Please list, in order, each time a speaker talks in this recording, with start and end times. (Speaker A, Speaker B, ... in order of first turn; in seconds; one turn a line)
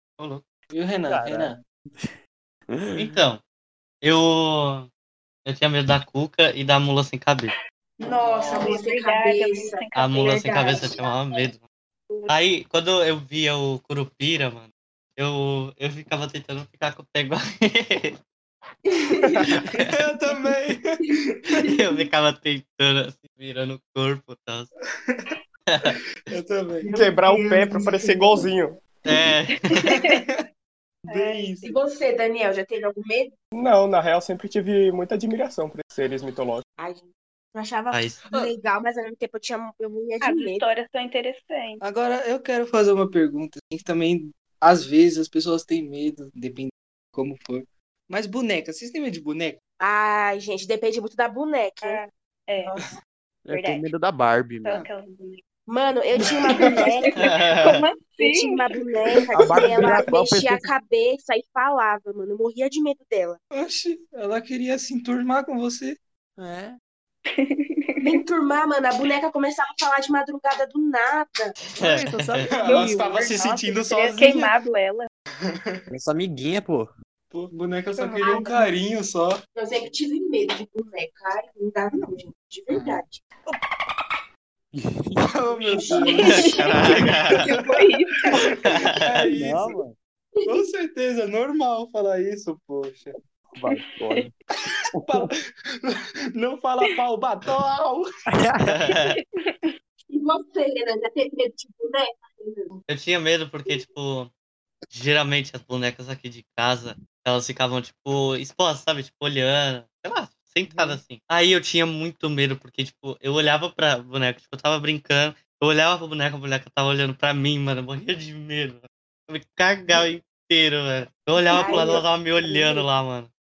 Speaker A: 0.7-1.6
Speaker B: 1.1-2.1
Speaker B: 2.7-3.2
Speaker C: 3.0-3.4
Speaker C: 4.0-4.9
Speaker C: 5.5-7.5
Speaker D: 8.0-11.4
Speaker A: 8.1-8.8
Speaker E: 8.2-10.0
Speaker C: 10.0-11.6
Speaker D: 12.1-12.3
Speaker C: 12.3-18.2
Speaker E: 18.9-19.6
Speaker A: 19.8-21.0
Speaker C: 21.6-24.7
Speaker A: 25.1-25.4
Speaker C: 25.7-26.0
Speaker A: 26.3-26.9
Speaker F: 26.9-28.8
Speaker E: 26.9-28.5
Speaker C: 29.1-29.7
Speaker D: 29.8-30.2
Speaker A: 29.9-30.4
Speaker D: 31.1-31.7
Speaker A: 31.1-31.7
Speaker E: 31.6-33.3
Speaker F: 33.5-36.6
Speaker E: 36.8-37.0
Speaker E: 37.5-40.7
Speaker C: 37.9-38.2
Speaker D: 40.2-41.8
Speaker A: 41.8-49.6
Speaker E: 49.8-52.0
Speaker D: 51.8-52.8
Speaker B: 53.5-54.8
Speaker D: 53.5-53.9
Speaker D: 54.6-55.4
Speaker E: 55.7-57.4
Speaker A: 56.3-56.9
Speaker D: 56.5-59.2
Speaker C: 57.1-57.8
Speaker E: 58.2-63.4
Speaker B: 59.4-60.7
Speaker F: 59.4-60.1
Speaker A: 63.5-66.0
Speaker B: 66.4-66.8
Speaker D: 67.4-68.2
Speaker E: 68.0-71.6
Speaker C: 71.7-72.5
Speaker B: 71.8-73.4
Speaker A: 71.8-74.5
Speaker D: 72.6-75.1
Speaker A: 75.5-75.8
Speaker B: 75.9-76.9
Speaker A: 77.3-79.4
Speaker D: 78.0-78.5
Speaker E: 78.2-78.7
Speaker E: 79.6-83.3
Speaker B: 84.8-86.0
Speaker A: 85.2-87.8
Speaker E: 85.5-87.0
Speaker D: 86.1-88.4
Speaker C: 86.2-87.5
Speaker A: 88.3-89.8
Speaker C: 88.5-89.2
Speaker B: 89.3-90.0
Speaker E: 90.4-90.7
Speaker A: 90.5-93.1
Speaker B: 93.6-94.3
Speaker D: 93.7-94.3
Speaker A: 95.0-98.0
Speaker B: 98.3-98.8
Speaker C: 98.7-99.1
Speaker D: 98.8-99.7
Speaker E: 100.1-102.7
Speaker C: 102.9-104.3
Speaker C: 104.9-123.3
Speaker E: 121.4-122.9